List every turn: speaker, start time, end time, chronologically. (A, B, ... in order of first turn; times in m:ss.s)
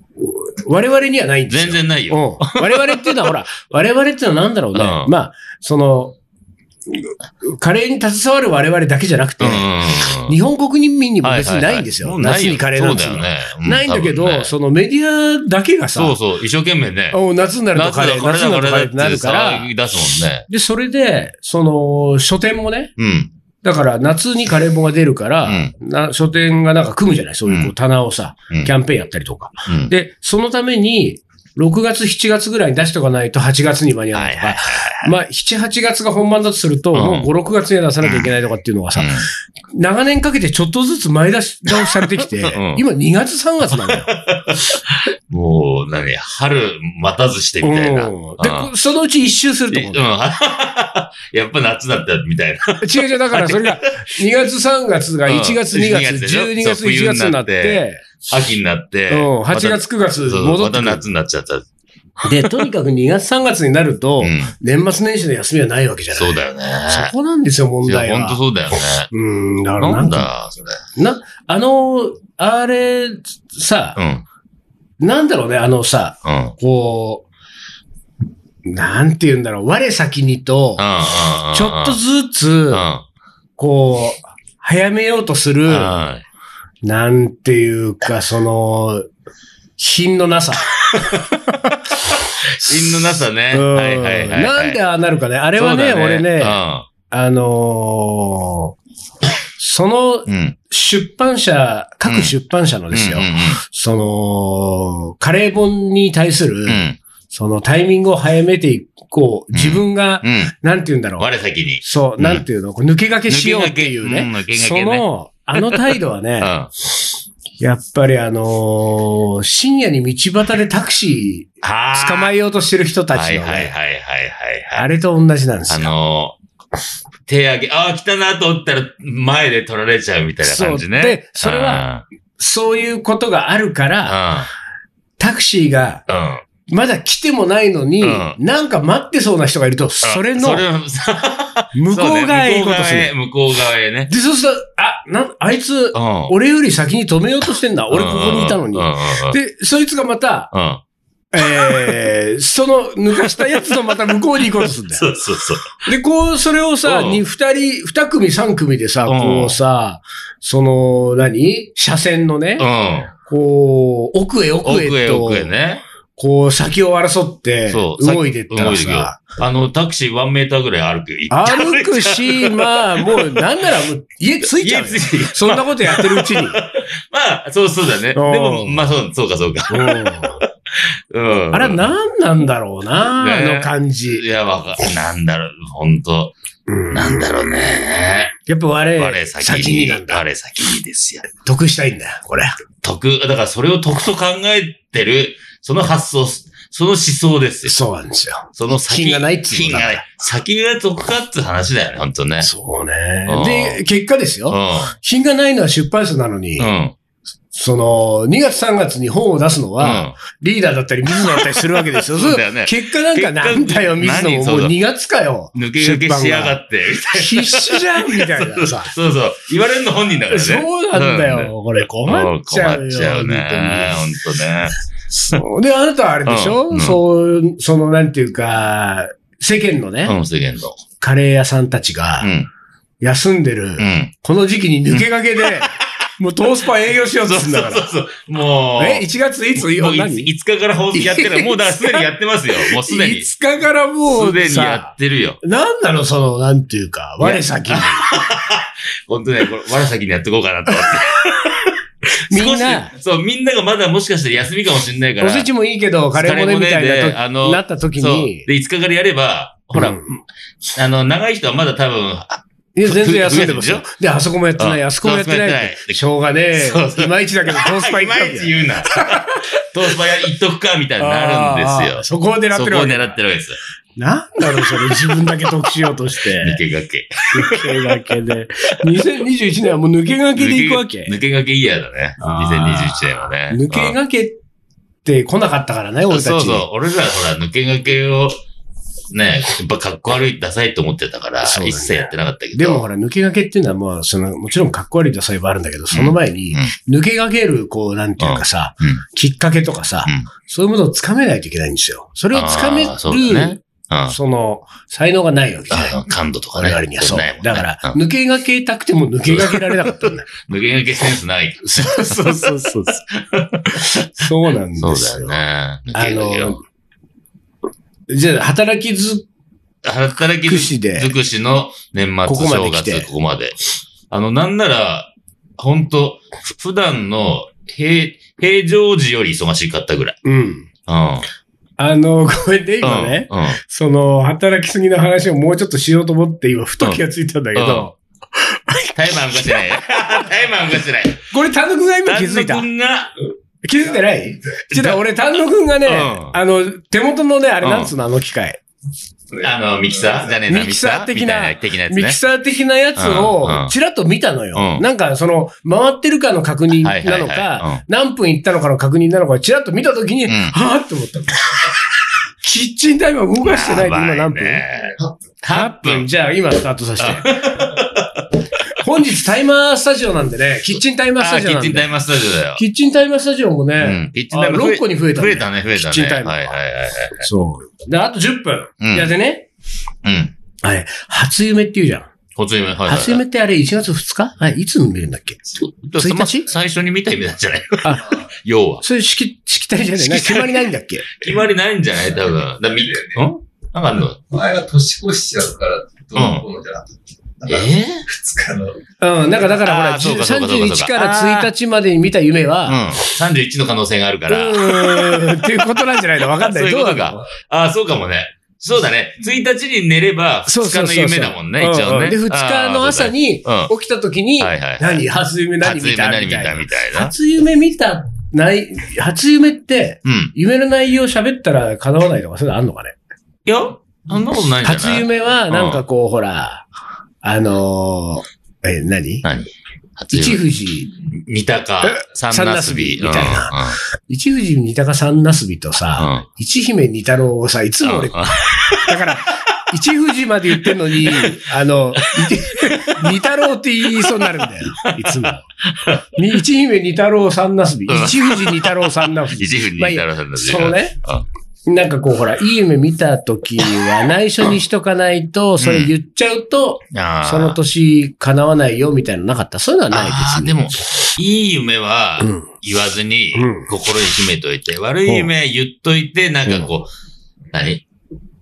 0:00.2-0:06.2 A
0:01.5-0:03.3 B
0:04.7-0:05.1 B
0:06.9-0:09.7 A
0:09.4-0:10.4 B
0:10.2-0:16.2 A
0:11.2-0:14.5 B
0:16.0-0:17.2 B
0:17.1-0:19.7 A
0:17.7-0:20.5 B
0:20.5-0:22.9 A
0:23.0-0:23.3 B
0:23.6-0:44.2 A
0:25.4-0:25.7 B
0:27.5-0:27.7 B
0:29.7-0:29.9 B
0:34.2-0:35.1 B
0:36.9-0:37.3 B
0:38.0-0:38.3 B
0:39.0-0:39.3 B
0:41.7-0:42.8 B
0:43.7-0:48.7 B
0:47.6-0:50.0 A
0:49.7-0:54.0 B
0:52.8-0:58.1 A
0:55.2-1:01.7 B
0:59.1-1:01.0 A
1:02.2-1:08.4 A
1:04.2-1:04.5 B
1:06.2-1:07.1 B
1:07.8-1:09.1 B
1:09.1-1:10.3 A
1:09.8-1:10.8 B
1:11.0-1:14.0 A
1:14.0-1:14.2 B
1:15.0-1:17.2 A
1:16.2-1:16.6 B
1:18.6-1:20.9 A
1:20.8-1:22.0 B
1:21.5-1:22.9 A
1:22.7-1:23.0 B
1:23.6-1:26.0 A
1:25.7-1:26.2 B
1:26.8-1:29.1 A
1:29.8-1:38.7 A
1:32.6-1:34.8 B
1:35.6-1:36.9 B
1:39.6-1:51.3 A
1:40.3-1:40.6 B
1:42.1-1:42.3 B
1:42.9-1:43.6 B
1:46.7-1:47.0 B
1:49.5-1:50.5 B
1:51.2-1:52.4 B
1:51.8-1:56.5 A
1:53.3-1:56.7 B
1:57.6-2:03.7 A
2:01.6-2:02.3 B
2:03.1-2:04.9 B
2:04.7-2:05.9 A
2:05.7-2:06.4 B
2:07.2-2:12.0 B
2:10.4-2:14.2 A
2:14.0-2:14.5 B
2:15.2-2:16.1 A
2:16.1-2:16.4 B
2:16.7-2:20.6 A
2:18.0-2:18.4 B
2:20.0-2:24.1 B
2:21.8-2:23.1 A
2:24.1-2:30.5 A
2:25.9-2:26.3 B
2:27.9-2:29.4 B
2:30.5-2:30.8 B
2:31.3-2:35.1 A
2:31.4-2:31.9 B
2:33.3-2:35.8 B
2:35.8-2:42.7 A
2:36.8-2:37.2 B
2:39.1-2:39.6 B
2:42.6-2:43.1 B
2:43.2-2:45.5 A
2:44.6-2:45.8 B
2:46.2-2:49.2 A
2:47.7-2:53.7 B
2:51.3-2:56.6 A
2:54.4-3:01.9 B
2:58.1-2:58.8 A
2:59.7-3:00.4 A
3:01.5-3:04.2 A
3:03.0-3:06.3 B
3:06.7-3:07.3 A
3:06.9-3:08.4 B
3:08.5-3:10.2 A
3:09.0-3:11.3 B
3:11.4-3:12.6 A
3:12.8-3:17.8 B
3:17.7-3:20.0 A
3:18.6-3:22.5 B
3:22.4-3:26.7 A
3:23.2-3:23.8 B
3:24.5-3:25.0 B
3:26.6-3:26.9 B
3:27.5-3:36.6 A
3:29.8-3:30.2 B
3:31.1-3:34.8 B
3:35.6-3:41.5 B
3:37.1-3:38.9 A
3:40.3-3:44.1 A
3:42.0-3:44.7 B
3:45.1-3:50.2 A
3:46.2-3:47.0 B
3:50.0-3:50.8 B
3:51.0-3:52.3 A
3:52.2-3:52.5 B
3:53.0-3:57.9 A
3:53.8-3:54.1 B
3:54.9-3:55.9 B
3:57.2-4:03.3 B
3:58.8-4:00.3 A
4:00.9-4:08.1 A
4:04.1-4:05.4 B
4:07.2-4:11.5 B
4:10.7-4:11.3 A
4:12.3-4:12.9 A
4:12.3-4:15.5 B
4:15.2-4:18.5 A
4:16.1-4:20.0 B
4:19.8-4:20.2 A
4:20.8-4:23.9 B
4:22.8-4:29.5 A
4:24.6-4:26.0 B
4:26.5-4:33.6 B
4:31.0-4:33.2 A
4:34.0-4:36.6 A
4:34.4-4:35.4 B
4:36.4-4:38.1 B
4:37.3-4:41.2 A
4:40.4-4:44.0 B
4:42.2-4:44.4 A
4:45.0-4:46.7 A
4:46.1-4:48.4 B
4:49.1-4:52.8 B
4:51.4-5:06.0 A
4:55.9-4:56.7 B
4:58.2-4:59.0 B
5:02.3-5:04.2 B
5:05.7-5:08.0 B
5:06.6-5:10.3 A
5:09.3-5:14.3 B
5:11.6-5:13.0 A
5:13.8-5:15.4 A
5:14.8-5:16.6 B
5:15.9-5:16.6 A
5:18.1-5:19.2 A
5:19.8-5:23.6 B
5:20.4-5:21.1 A
5:22.2-5:23.1 A
5:24.1-5:30.2 B
5:30.2-5:30.7 A
5:30.9-5:31.2 B
5:31.8-5:39.8 A
5:32.8-5:33.6 B
5:37.6-5:37.9 B
5:38.9-5:41.2 B
5:41.3-5:42.7 A
5:42.1-5:43.1 B
5:43.6-5:48.6 A
5:44.7-5:45.0 B
5:45.8-5:46.4 B
5:47.6-5:47.9 B
5:49.4-5:52.2 B
5:50.5-6:01.7 A
5:53.0-5:53.7 B
5:54.6-5:54.8 B
5:56.8-5:57.8 B
6:00.2-6:00.6 B
6:02.4-6:04.6 A
6:03.4-6:06.1 B
6:05.5-6:07.7 A
6:07.0-6:08.3 B
6:08.7-6:12.0 A
6:11.2-6:12.6 B
6:12.5-6:16.5 A
6:13.8-6:17.2 B
6:17.2-6:19.5 A
6:18.8-6:19.1 B
6:20.0-6:20.3 B
6:20.6-6:22.1 A
6:22.4-6:23.2 B
6:22.9-6:25.4 A
6:25.8-6:28.8 B
6:26.0-6:26.5 A
6:27.8-6:28.1 A
6:28.8-6:31.2 A
6:30.0-6:34.3 B
6:32.1-6:33.2 C
6:34.3-6:38.8 C
6:36.1-6:36.5 B
6:37.5-6:38.0 B
6:39.0-6:42.8 A
6:39.6-6:41.5 B
6:42.6-6:53.7 B
6:44.3-6:47.2 A
6:50.5-7:03.0 A
6:54.4-6:55.0 B
6:55.6-6:57.1 B
7:00.0-7:00.3 B
7:03.5-7:05.8 B
7:04.6-7:06.7 A
7:07.2-7:09.2 A
7:09.2-7:10.5 B
7:10.1-7:10.9 A
7:11.1-7:13.8 B
7:11.8-7:25.4 A
7:16.0-7:16.2 B
7:17.8-7:19.1 B
7:20.6-7:21.4 B
7:22.0-7:23.2 B
7:23.8-7:26.0 B
7:26.1-7:31.0 A
7:27.9-7:31.2 B
7:31.7-7:40.6 A
7:35.6-7:35.9 B
7:36.9-7:37.6 B
7:39.9-7:46.9 B
7:42.2-7:42.5 A
7:43.4-7:43.7 A
7:47.5-7:47.8 B